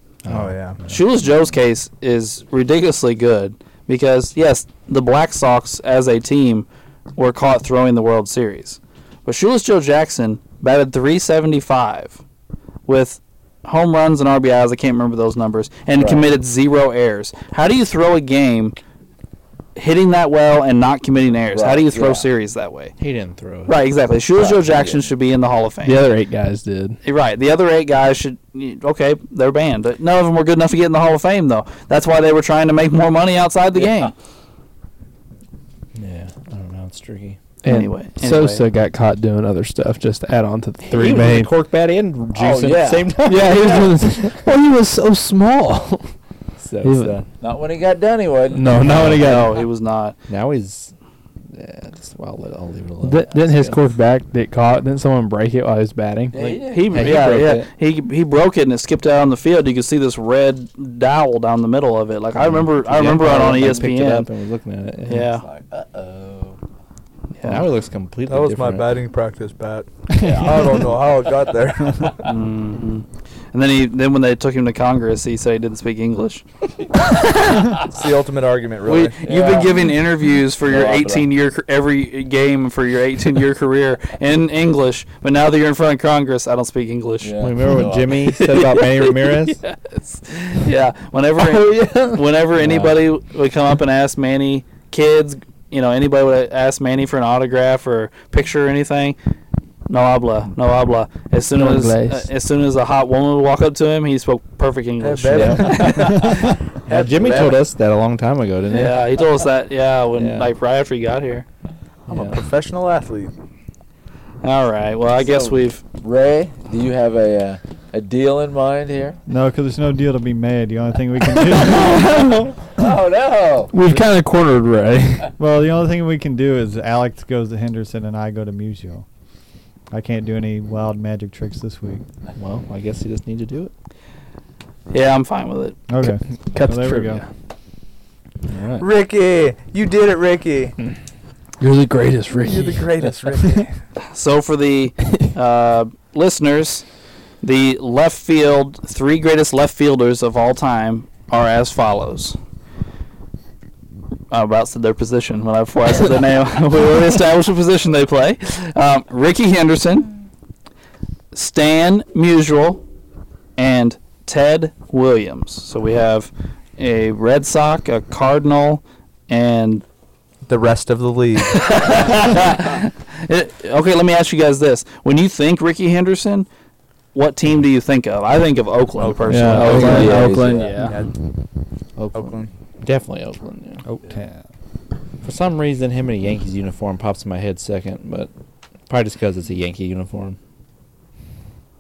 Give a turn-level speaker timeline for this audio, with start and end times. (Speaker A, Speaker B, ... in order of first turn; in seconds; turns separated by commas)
Speaker A: 0.2-0.9, Speaker B: 0.3-0.8, Speaker C: 0.9-12.2, Speaker C: 12.8-18.8, Speaker D: 15.9-16.3, Speaker C: 19.8-22.9, Speaker D: 21.5-22.3, Speaker A: 23.0-23.8, Speaker C: 23.6-26.0, Speaker D: 24.3-25.1, Speaker E: 25.8-27.0, Speaker C: 27.0-34.1, Speaker D: 33.8-34.1, Speaker A: 35.9-37.4, Speaker E: 37.6-41.5, Speaker C: 37.6-38.6, Speaker A: 40.9-44.3, Speaker D: 42.3-43.8, Speaker E: 43.2-46.1, Speaker A: 46.6-47.2, Speaker E: 46.8-47.1, Speaker D: 47.4-48.8, Speaker E: 48.5-49.5, Speaker A: 48.8-49.5, Speaker C: 49.0-50.1, Speaker A: 50.3-50.9, Speaker A: 51.5-53.8, Speaker E: 53.0-56.6, Speaker D: 56.3-57.1, Speaker C: 56.6-64.3, Speaker A: 56.9-57.7, Speaker A: 62.4-65.2, Speaker C: 65.1-65.4, Speaker D: 65.2-66.6, Speaker C: 67.3-67.6, Speaker A: 67.4-68.9, Speaker B: 68.3-72.3, Speaker D: 70.2-71.0, Speaker C: 72.2-76.4, Speaker B: 77.7-79.2, Speaker C: 78.9-87.4, Speaker D: 79.2-81.3, Speaker D: 87.2-88.2, Speaker A: 87.4-89.6, Speaker C: 88.3-99.2, Speaker E: 91.4-92.2, Speaker D: 92.6-93.0, Speaker C: 99.9-106.3, Speaker E: 101.5-102.3, Speaker B: 105.0-107.5, Speaker D: 105.3-106.5, Speaker A: 106.9-109.0, Speaker C: 108.7-111.4, Speaker A: 110.2-110.5, Speaker A: 112.1-112.4, Speaker B: 112.1-113.3, Speaker C: 114.4-115.8, Speaker D: 115.2-119.2, Speaker F: 119.3-122.3, Speaker E: 121.7-122.4, Speaker D: 122.8-123.7, Speaker E: 123.7-125.3, Speaker F: 125.4-129.0, Speaker F: 129.9-132.0, Speaker A: 132.3-133.7, Speaker C: 134.9-135.8, Speaker F: 135.9-137.2, Speaker E: 136.5-137.2, Speaker A: 138.5-138.8, Speaker B: 138.8-140.8, Speaker E: 141.6-142.9, Speaker B: 142.4-143.7, Speaker C: 144.1-146.8, Speaker C: 147.4-152.4, Speaker C: 154.3-160.1, Speaker C: 161.3-162.8, Speaker C: 163.6-169.8, Speaker B: 170.4-172.2, Speaker C: 171.5-176.5, Speaker C: 177.1-180.4, Speaker B: 179.0-180.2, Speaker E: 179.3-181.0, Speaker D: 179.6-180.9, Speaker B: 180.8-181.1, Speaker A: 182.0-183.8, Speaker B: 182.1-182.5, Speaker F: 183.8-184.4, Speaker A: 185.2-188.3, Speaker A: 188.9-190.4